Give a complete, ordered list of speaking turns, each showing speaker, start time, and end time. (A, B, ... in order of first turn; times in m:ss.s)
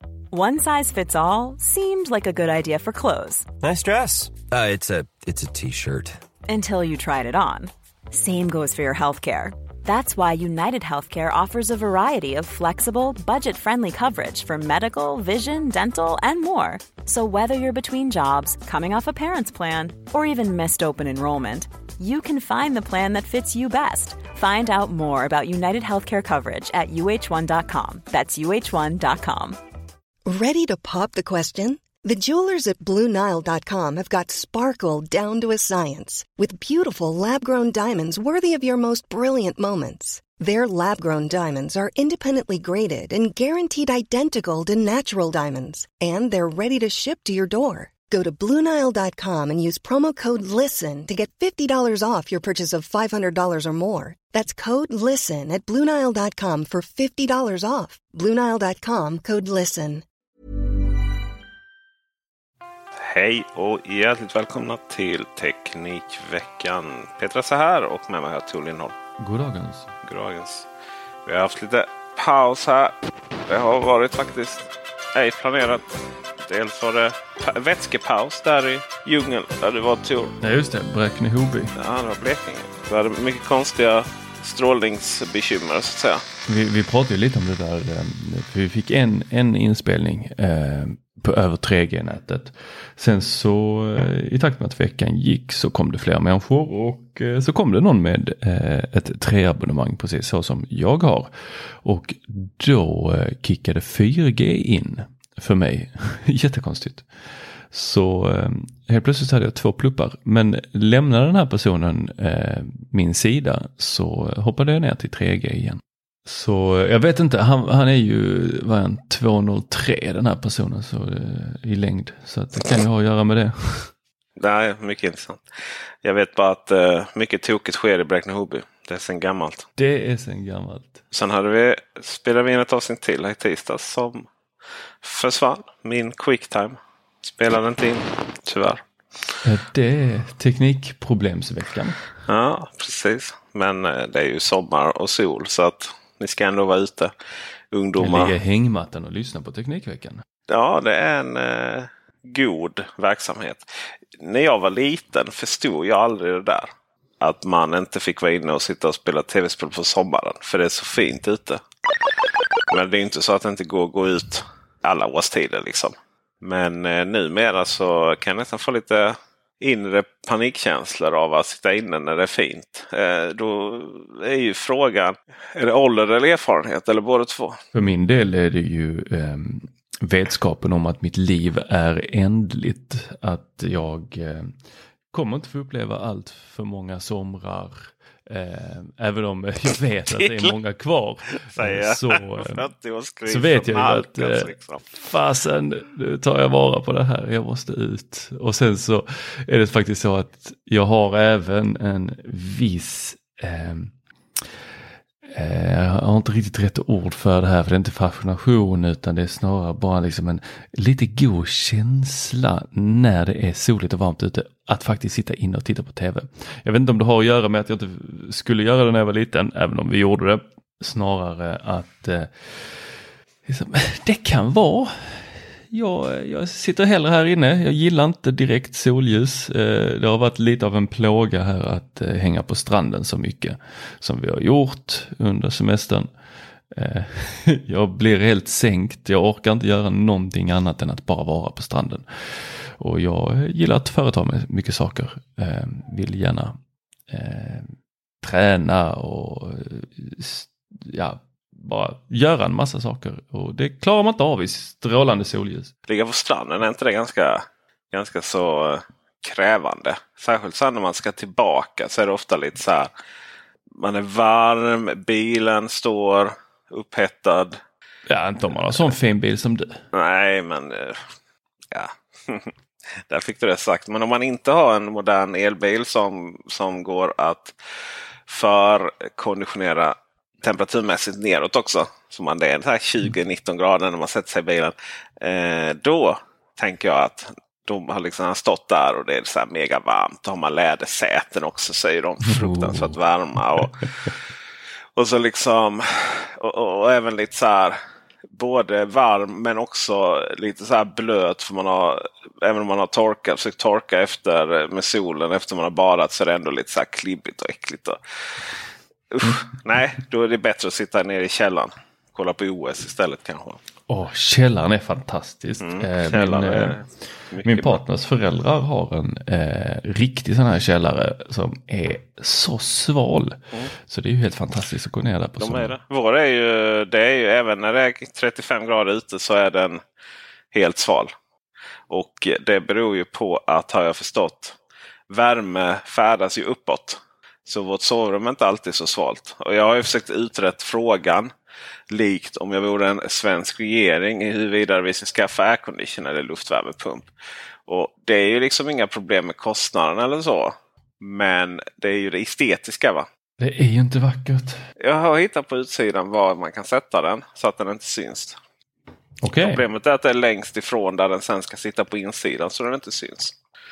0:00.3-0:03.5 A
0:03.6-0:06.2 B
0:06.5-0:29.6 A
0:30.2-1:00.0 C
1:03.0-1:08.9 D
1:09.2-1:09.9 E
1:10.0-1:10.7 D
1:11.3-1:12.9 D
1:13.5-1:20.4 D
1:20.4-1:21.7 E
1:21.7-1:26.2 D
1:26.4-1:47.1 E
1:47.7-2:03.9 E
2:04.4-2:05.4 D
2:06.0-2:09.6 D
2:09.8-2:11.0 E
2:11.1-2:14.3 D
2:15.0-2:18.8 D
2:19.4-2:22.0 E
2:22.3-2:27.1 D
2:27.7-2:28.3 D
2:28.0-2:30.2 E
2:30.5-2:33.6 D
2:34.2-2:41.6 D
2:42.7-2:57.6 D
2:57.7-3:04.5 E
3:05.1-3:12.6 E
3:10.1-3:10.5 D
3:11.4-3:15.0 D
3:13.2-3:23.9 E
3:25.2-3:56.1 E
3:56.7-4:06.6 E
4:07.1-4:15.7 E
4:15.9-4:22.9 D
4:23.8-4:27.6 D
4:28.1-4:29.8 E
4:29.9-4:31.0 D
4:31.7-4:32.5 D
4:33.1-4:37.6 D
4:38.3-4:54.1 D
4:52.2-4:53.7 E
4:55.0-4:57.8 D
4:58.3-5:08.6 D
5:09.1-5:13.6 D
5:13.9-5:16.8 E
5:15.6-5:17.8 D
5:17.4-5:25.8 E
5:25.4-5:29.8 D
5:30.5-5:31.1 D
5:31.9-5:34.6 D
5:35.1-5:41.3 D
5:41.9-5:47.1 D
5:47.7-5:53.1 D
5:53.4-5:54.6 E
5:54.8-5:58.4 D
5:59.2-5:59.6 E
5:59.4-6:03.4 D